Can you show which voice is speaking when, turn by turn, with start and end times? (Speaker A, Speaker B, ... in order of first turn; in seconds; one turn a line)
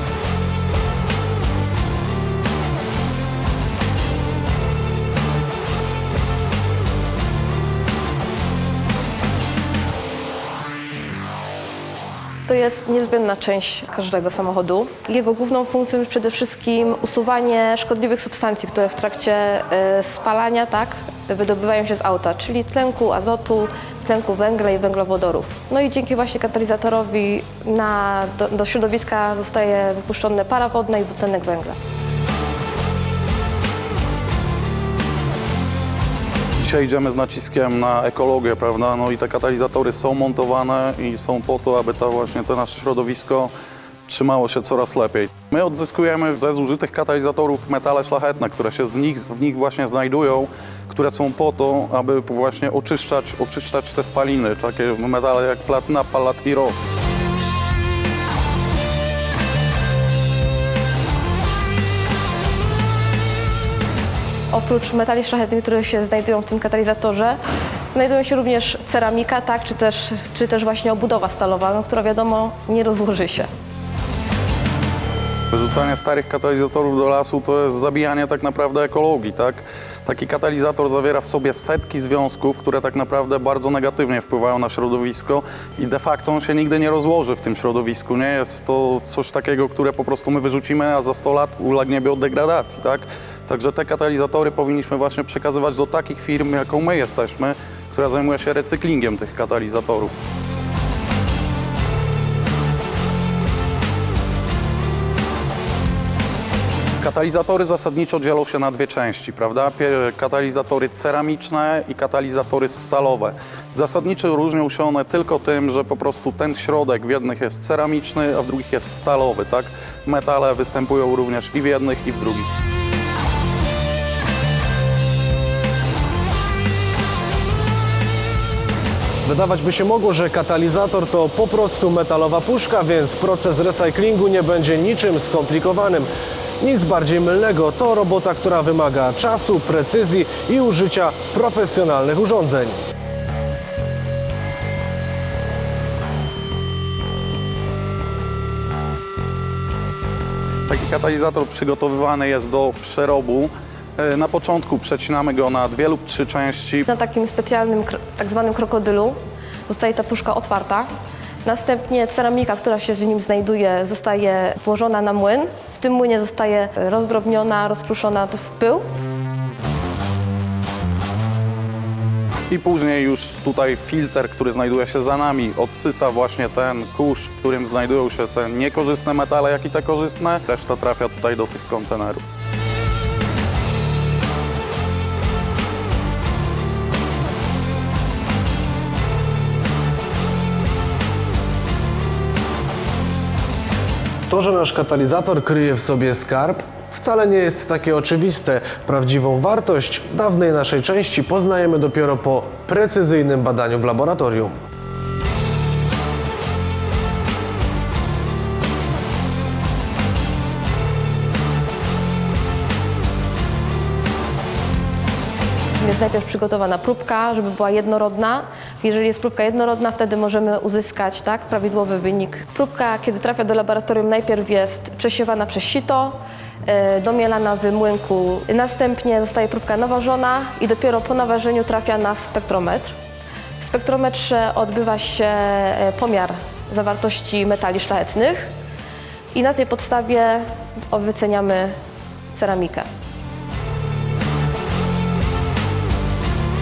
Speaker A: 12.5-31.8
Speaker B: 36.6-43.5
Speaker B: 44.1-56.8
Speaker A: 64.5-67.4
Speaker A: 67.9-73.5
Speaker B: 75.5-100.2
Speaker B: 107.0-122.5
Speaker C: 129.2-136.1
Speaker C: 136.6-142.8
Speaker B: 150.7-156.9
Speaker A: 156.9-160.9
Speaker A: 161.4-168.8
Speaker B: 172.5-182.2
Speaker C: 194.3-204.5
Speaker A: 215.8-232.9
Speaker A: 233.6-238.5
Speaker A: 239.3-241.8
Speaker A: 242.3-242.9